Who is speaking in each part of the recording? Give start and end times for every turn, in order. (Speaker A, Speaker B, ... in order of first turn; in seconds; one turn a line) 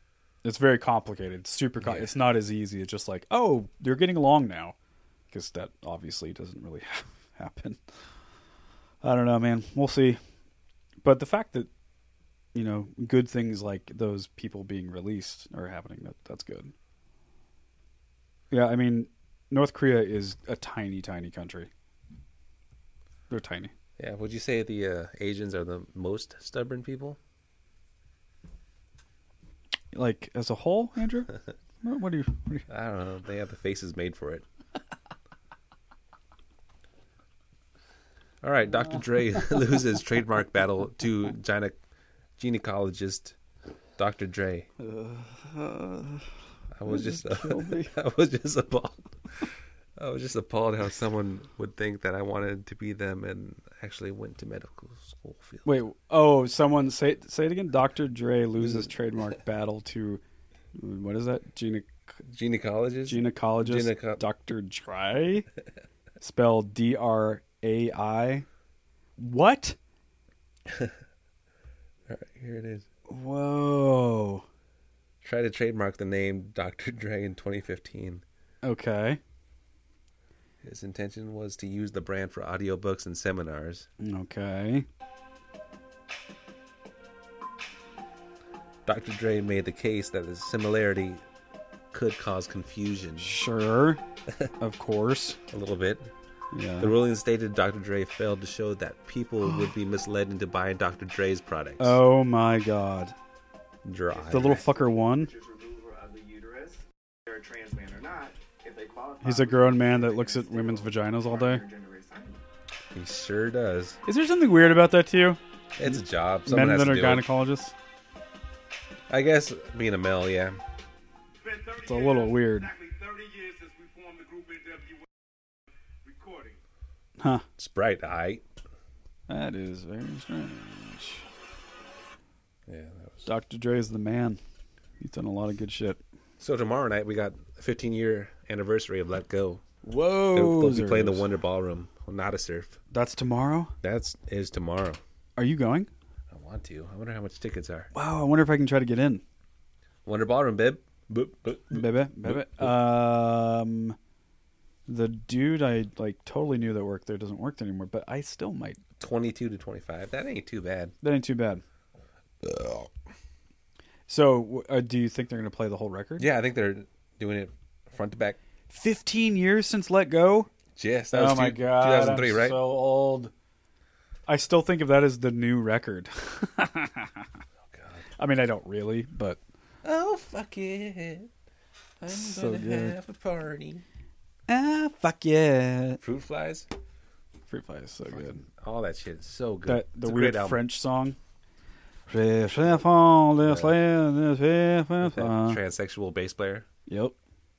Speaker A: 0.4-4.8
Speaker B: 1.8-2.1
Speaker A: 5.3-7.8
Speaker A: 9.0-10.2
Speaker A: 11.0-11.7
Speaker A: 12.5-16.7
Speaker A: 18.5-21.7
Speaker A: 23.3-23.7
Speaker B: 24.0-27.2
Speaker A: 29.9-32.7
Speaker B: 32.7-34.5
Speaker B: 38.4-41.8
Speaker B: 42.4-43.4
Speaker B: 44.0-44.7
Speaker A: 44.8-46.3
Speaker B: 46.7-55.6
Speaker A: 46.9-47.9
Speaker A: 55.6-60.2
Speaker B: 58.6-58.9
Speaker A: 60.8-62.2
Speaker B: 62.3-64.2
Speaker A: 63.1-65.5
Speaker A: 66.2-68.5
Speaker A: 69.2-69.8
Speaker B: 70.7-71.0
Speaker B: 72.1-72.9
Speaker A: 73.1-74.4
Speaker B: 75.2-78.2
Speaker A: 78.6-79.2
Speaker B: 80.6-83.9
Speaker A: 84.0-84.9
Speaker B: 88.9-91.2
Speaker B: 91.9-93.4
Speaker A: 93.2-94.0
Speaker A: 94.6-95.4
Speaker B: 95.5-96.1
Speaker A: 96.5-96.9
Speaker B: 96.8-102.0
Speaker A: 101.8-103.2
Speaker B: 103.8-104.7
Speaker C: 104.1-112.4
Speaker A: 104.3-105.3
Speaker A: 109.2-111.6
Speaker B: 112.9-114.0
Speaker A: 114.1-117.7
Speaker B: 115.8-117.3
Speaker B: 119.1-120.6
Speaker C: 121.4-125.0
Speaker A: 121.8-122.7
Speaker C: 126.0-126.6
Speaker A: 127.2-127.5
Speaker B: 127.6-128.4
Speaker A: 129.3-131.3
Speaker B: 132.7-133.3
Speaker A: 133.2-134.4
Speaker A: 135.0-136.0
Speaker B: 136.4-139.6
Speaker A: 139.8-141.3
Speaker B: 140.3-142.8
Speaker A: 142.9-143.7
Speaker B: 143.8-145.0
Speaker A: 145.4-145.9
Speaker B: 146.3-147.9
Speaker A: 147.9-149.2
Speaker B: 150.1-152.8
Speaker A: 151.7-154.0
Speaker A: 154.9-158.8
Speaker B: 159.0-160.9
Speaker A: 161.0-161.6
Speaker B: 162.4-162.9
Speaker A: 164.1-166.3
Speaker B: 166.2-168.4
Speaker A: 168.7-170.5
Speaker B: 170.8-172.6
Speaker A: 171.1-173.3
Speaker A: 174.3-177.3
Speaker B: 177.7-178.1
Speaker A: 178.2-179.4
Speaker B: 179.8-181.3
Speaker B: 182.0-183.8
Speaker A: 182.1-183.0
Speaker A: 184.5-186.0
Speaker B: 186.0-186.7
Speaker A: 187.5-188.4
Speaker B: 188.1-190.6
Speaker A: 189.7-191.2
Speaker A: 192.1-195.6
Speaker B: 193.4-193.8
Speaker B: 195.0-196.7
Speaker A: 196.9-197.2